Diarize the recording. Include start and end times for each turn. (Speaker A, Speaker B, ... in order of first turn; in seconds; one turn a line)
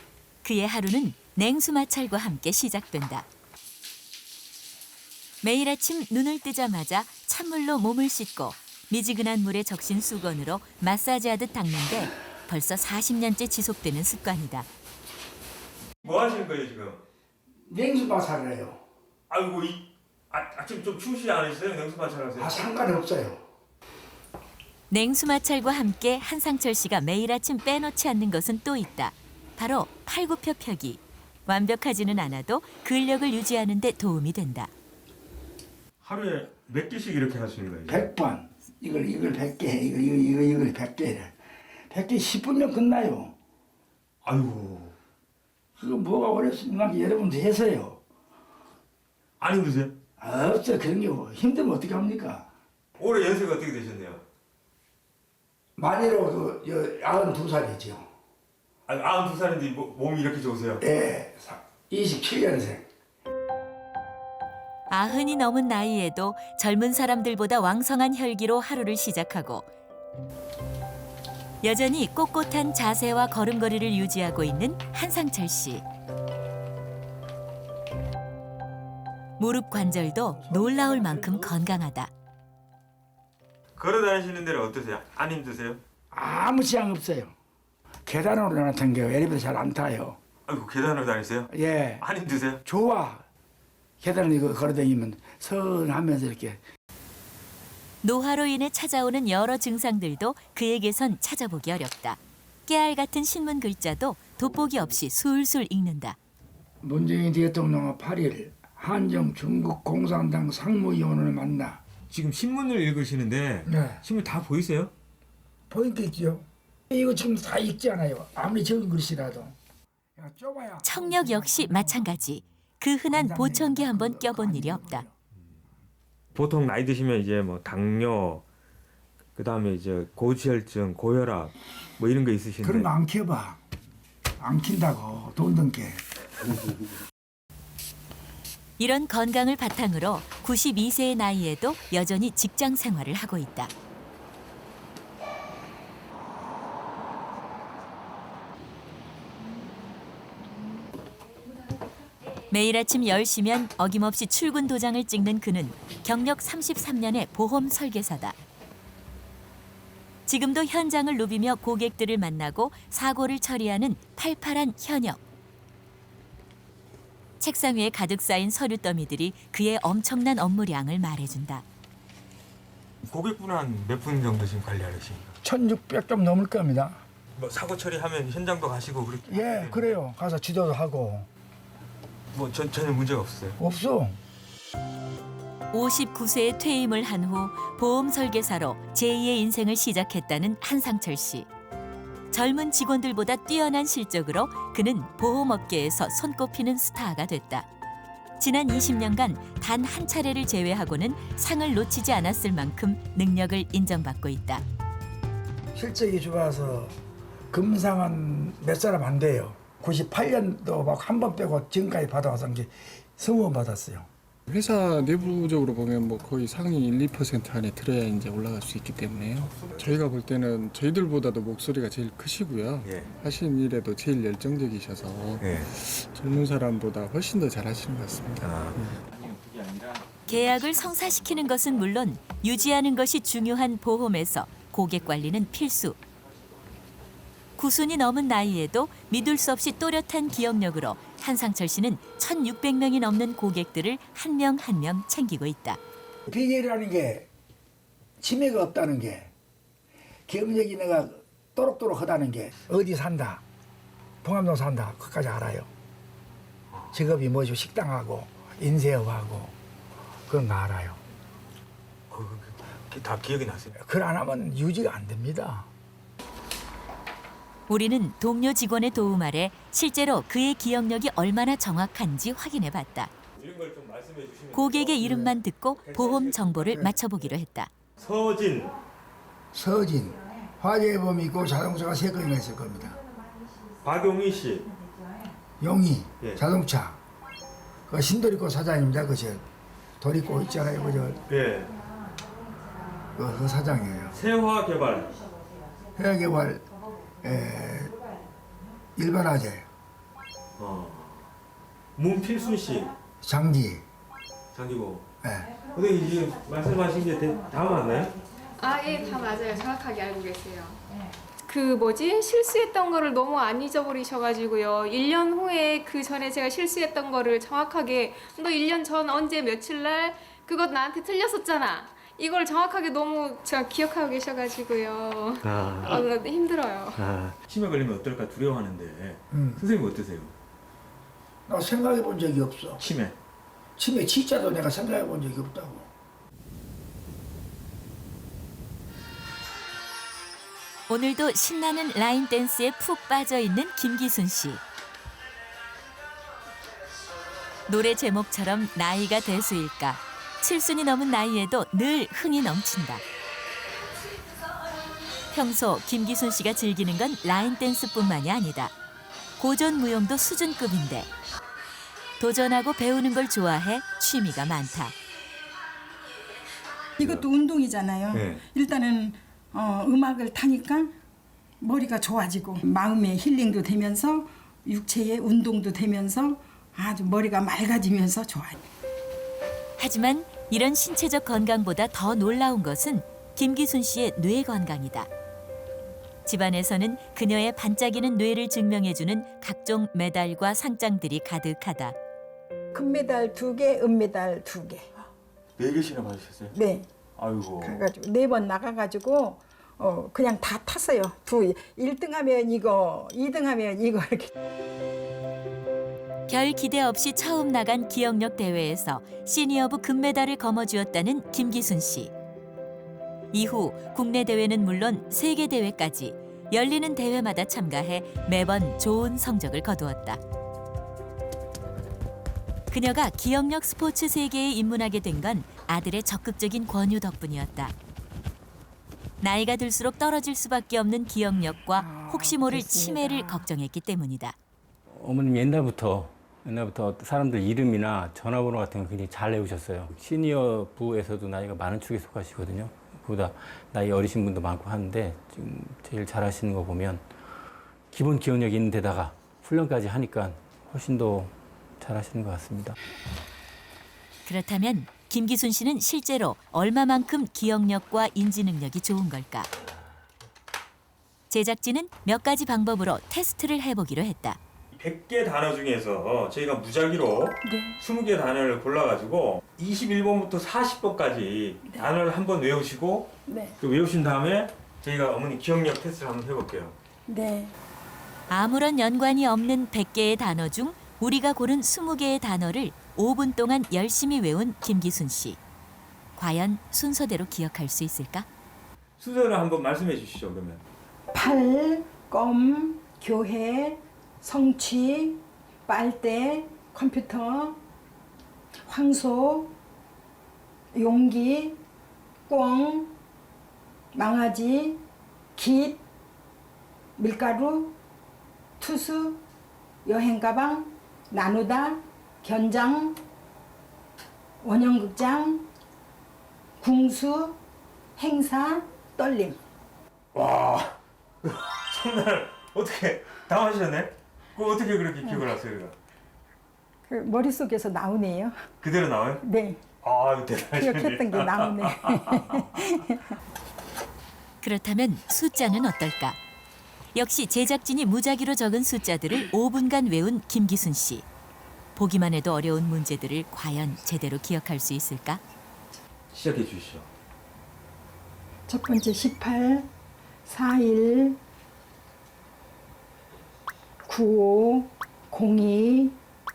Speaker A: 0.4-3.3
Speaker A: 5.4-14.7
Speaker B: 16.0-17.0
Speaker C: 17.7-18.8
Speaker B: 19.3-22.7
Speaker C: 22.4-23.4
Speaker A: 24.9-34.7
Speaker B: 36.0-38.1
Speaker C: 37.9-41.3
Speaker C: 41.9-43.3
Speaker B: 44.2-44.9
Speaker C: 45.8-48.0
Speaker B: 49.4-50.0
Speaker C: 50.2-52.5
Speaker B: 53.0-54.2
Speaker C: 55.8-58.1
Speaker B: 58.9-60.8
Speaker C: 60.8-62.8
Speaker A: 64.9-69.7
Speaker A: 71.6-75.8
Speaker A: 79.4-82.1
Speaker C: 80.3-81.6
Speaker B: 83.8-85.8
Speaker C: 86.1-87.3
Speaker C: 88.0-90.2
Speaker B: 90.5-92.6
Speaker C: 91.5-92.0
Speaker C: 92.6-93.2
Speaker C: 94.0-96.6
Speaker A: 98.0-106.2
Speaker C: 106.8-111.8
Speaker B: 112.1-114.9
Speaker C: 113.7-114.0
Speaker C: 115.7-119.5
Speaker C: 120.2-122.0
Speaker A: 120.8-125.0
Speaker C: 123.1-125.1
Speaker B: 126.3-128.4
Speaker B: 129.3-132.9
Speaker C: 132.6-133.6
Speaker C: 134.4-136.0
Speaker A: 138.8-143.7
Speaker A: 152.5-158.3
Speaker A: 160.3-165.2
Speaker A: 167.4-171.6
Speaker B: 173.1-175.3
Speaker C: 175.4-177.0
Speaker B: 177.3-179.9
Speaker C: 179.3-181.3
Speaker B: 182.3-183.6
Speaker C: 183.6-184.2
Speaker A: 185.7-191.5
Speaker A: 192.3-197.7
Speaker A: 198.4-204.6
Speaker C: 205.8-207.0
Speaker C: 207.5-214.1
Speaker D: 214.5-228.9
Speaker B: 219.4-220.0
Speaker B: 222.8-223.1
Speaker B: 225.4-225.7
Speaker B: 228.4-230.2
Speaker A: 230.3-236.0
Speaker A: 237.6-245.8
Speaker C: 246.3-247.3
Speaker C: 248.2-249.3
Speaker C: 250.3-253.4
Speaker C: 254.2-255.7
Speaker C: 256.9-259.6
Speaker C: 260.3-261.0
Speaker B: 262.1-263.8
Speaker C: 263.8-265.7
Speaker A: 267.7-273.1
Speaker B: 273.4-276.9
Speaker A: 274.5-277.7
Speaker B: 278.0-278.8
Speaker C: 279.5-283.0
Speaker B: 283.8-284.7
Speaker C: 285.6-287.0
Speaker C: 287.9-289.4
Speaker C: 290.0-291.2
Speaker B: 291.3-291.8
Speaker C: 293.2-294.2
Speaker B: 294.1-295.2
Speaker C: 295.9-296.7
Speaker C: 297.2-298.0
Speaker C: 299.0-299.7
Speaker B: 300.6-301.3
Speaker B: 302.0-303.0
Speaker C: 303.2-303.8
Speaker B: 304.5-305.1
Speaker C: 305.2-305.7
Speaker B: 305.7-308.2
Speaker E: 308.6-310.8
Speaker E: 311.5-327.1
Speaker B: 325.4-326.0
Speaker B: 327.0-330.3
Speaker C: 329.3-329.6
Speaker C: 331.5-332.8
Speaker B: 332.8-333.2
Speaker C: 333.8-335.9
Speaker A: 340.9-344.6
Speaker A: 347.7-353.0
Speaker A: 355.3-358.7
Speaker A: 359.4-361.1
Speaker A: 362.2-364.9
Speaker F: 367.0-370.9
Speaker B: 368.1-368.4
Speaker F: 371.6-378.6
Speaker A: 379.8-385.1
Speaker A: 386.3-392.0
Speaker F: 392.7-394.9
Speaker B: 395.6-396.6
Speaker F: 396.5-396.9
Speaker B: 397.2-397.9
Speaker F: 397.6-404.3
Speaker A: 406.3-412.1
Speaker A: 413.3-420.2
Speaker A: 422.7-427.7
Speaker A: 429.2-434.4
Speaker F: 431.8-433.5
Speaker G: 438.2-438.5
Speaker G: 441.0-441.9
Speaker G: 444.9-445.2
Speaker G: 446.3-446.7
Speaker A: 454.3-459.5
Speaker A: 461.3-464.4
Speaker B: 464.7-476.8
Speaker F: 467.4-467.8
Speaker F: 473.3-473.6
Speaker F: 477.1-477.6
Speaker A: 478.3-485.4
Speaker A: 486.2-488.3
Speaker B: 489.0-490.6
Speaker F: 491.1-497.6
Speaker F: 498.7-499.5
Speaker F: 500.7-501.6
Speaker F: 502.3-502.9
Speaker F: 503.9-504.8
Speaker F: 505.4-505.8
Speaker F: 507.0-507.7
Speaker F: 508.6-509.2
Speaker F: 509.8-513.0
Speaker F: 514.4-515.5
Speaker F: 516.6-517.4
Speaker F: 518.0-519.4
Speaker B: 520.1-525.7
Speaker F: 526.9-528.4
Speaker B: 528.6-529.2
Speaker F: 529.2-529.6
Speaker B: 529.8-532.5
Speaker F: 530.5-533.2
Speaker A: 534.4-536.2
Speaker A: 536.9-541.0
Speaker A: 541.8-545.2
Speaker B: 546.1-546.9
Speaker F: 548.5-549.7
Speaker F: 550.2-551.2
Speaker F: 553.9-556.0